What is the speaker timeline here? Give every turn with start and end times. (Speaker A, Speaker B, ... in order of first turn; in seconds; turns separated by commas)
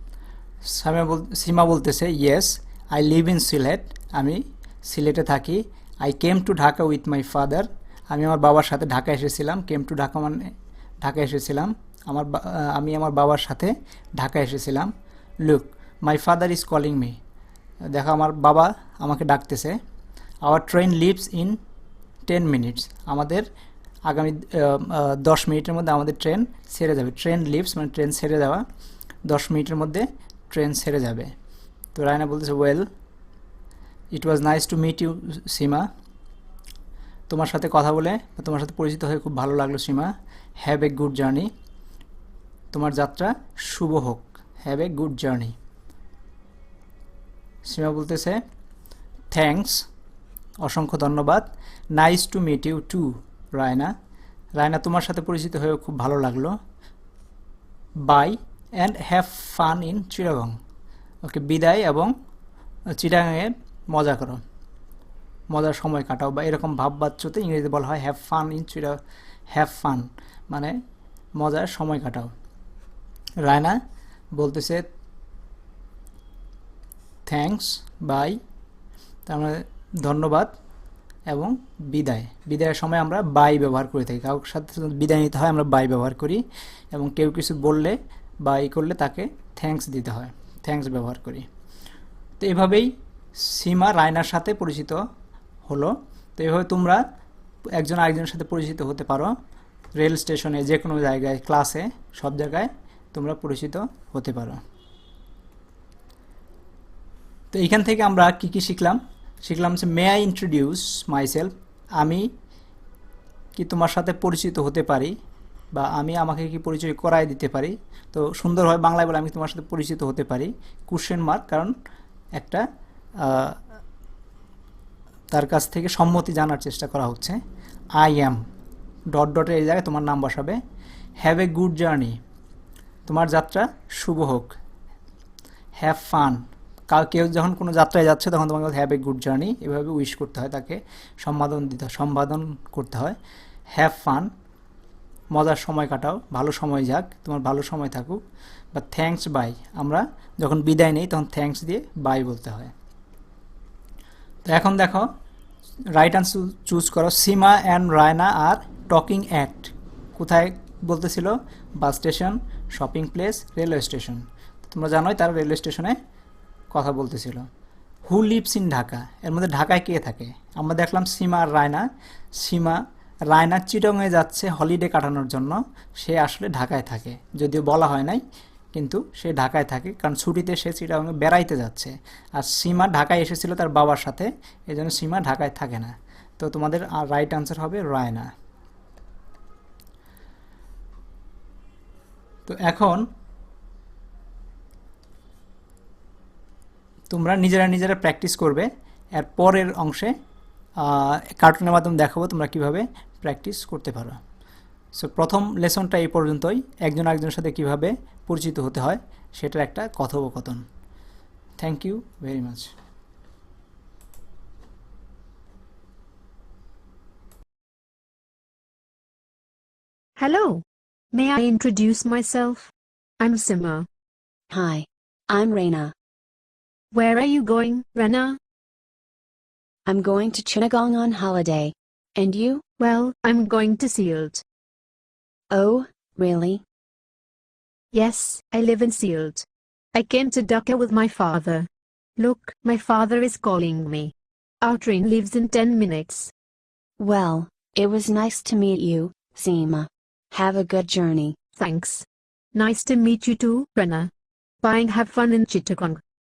Speaker A: 0.7-10.4, Speaker A: 11.0-14.9, Speaker A: 15.4-17.2, Speaker A: 17.9-19.8, Speaker A: 20.4-21.6, Speaker A: 22.3-23.4, Speaker A: 24.1-28.6, Speaker A: 29.3-31.3, Speaker A: 31.9-32.9, Speaker A: 34.1-35.9, Speaker A: 37.3-41.5, Speaker A: 42.7-45.5, Speaker A: 47.6-48.4, Speaker A: 49.3-49.8, Speaker A: 50.6-53.9, Speaker A: 54.6-56.5, Speaker A: 58.0-60.5, Speaker A: 61.2-62.1, Speaker A: 63.0-64.4, Speaker A: 65.5-69.0, Speaker A: 69.5-70.7, Speaker A: 71.4-72.3, Speaker A: 73.4-73.8, Speaker A: 74.3-74.8, Speaker A: 77.2-78.4, Speaker A: 79.2-80.5, Speaker A: 81.3-91.5, Speaker A: 92.4-95.0, Speaker A: 95.7-97.0, Speaker A: 97.8-99.3, Speaker A: 100.0-104.6, Speaker A: 107.5-112.3, Speaker A: 113.5-115.1, Speaker A: 115.7-121.7, Speaker A: 122.4-122.6, Speaker A: 123.2-123.6, Speaker A: 125.3-127.4, Speaker A: 128.0-128.4, Speaker A: 129.1-130.6, Speaker A: 131.2-132.2, Speaker A: 133.1-134.6, Speaker A: 135.8-143.2, Speaker A: 143.7-144.3, Speaker A: 145.3-148.2, Speaker A: 148.7-152.7, Speaker A: 154.5-155.1, Speaker A: 155.9-166.0, Speaker A: 166.7-167.4, Speaker A: 168.1-171.8, Speaker A: 172.4-172.8, Speaker A: 173.3-178.2, Speaker A: 178.7-188.3, Speaker A: 192.5-193.0, Speaker A: 197.1-200.1, Speaker A: 200.8-204.2, Speaker A: 204.9-210.6, Speaker A: 211.6-212.7, Speaker B: 220.2-223.9, Speaker C: 224.5-225.9, Speaker B: 226.9-228.4, Speaker C: 229.8-232.6, Speaker B: 232.8-234.4, Speaker C: 235.5-236.6, Speaker B: 237.9-246.3, Speaker C: 247.0-251.4, Speaker B: 251.6-254.1, Speaker B: 254.6-256.0